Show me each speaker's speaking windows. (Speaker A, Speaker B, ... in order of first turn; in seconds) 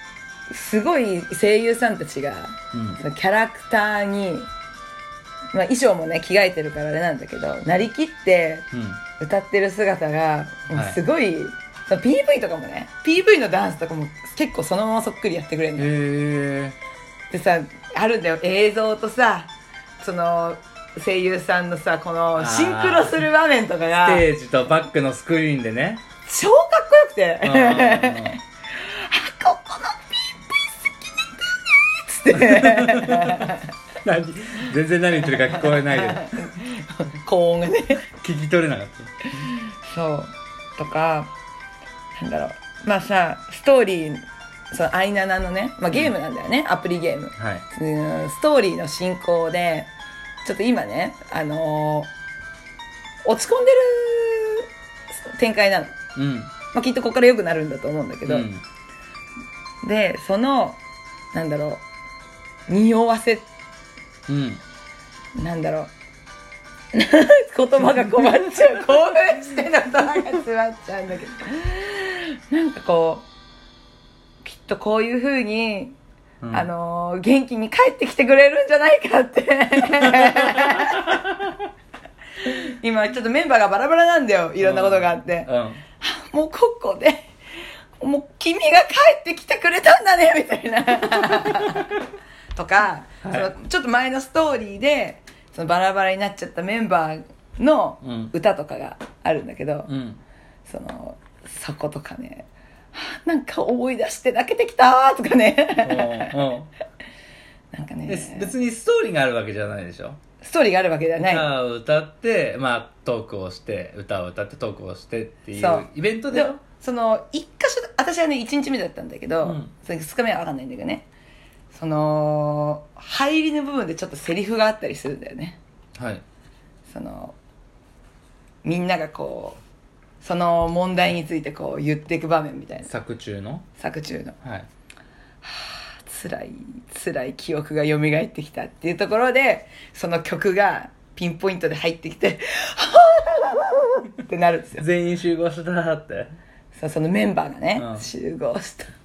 Speaker A: 0.5-4.5, 5.5-8.7, 9.2-15.9, 17.3-19.5, 20.0-24.2, 26.2-33.7, 35.2-38.0, 39.3-41.3, 42.1-49.9, 50.4-52.1, 53.2-56.0, 56.7-58.5, 59.8-60.8, 61.3-61.8, 62.7-63.5, 65.3-65.9, 66.9-73.2, 74.4-76.0, 76.5-81.2, 82.4-87.3, 88.0-91.9, 92.5-99.9, 100.7-106.3, 107.7-108.5, 110.4-111.5, 115.5-121.0, 121.7-125.6, 126.9-127.3, 128.6-129.6, 130.2-132.9, 133.8-134.3, 135.4-144.8, 146.8-148.9
Speaker B: 2.7-3.0, 8.7-9.0, 10.7-11.0, 15.8-16.8, 22.4-23.2, 24.0-26.0, 27.4-28.4, 32.3-36.3, 38.2-39.1, 47.4-47.6, 56.1-56.5, 58.3-58.6, 64.3-64.6, 76.4-76.7, 80.3-80.9, 84.6-85.8, 93.2-93.5, 98.0-98.3, 99.9-100.2, 105.8-106.7, 108.1-110.2, 111.2-116.6, 119.4-119.7, 126.0-126.2, 132.8-133.6, 144.8-146.3, 147.8-148.1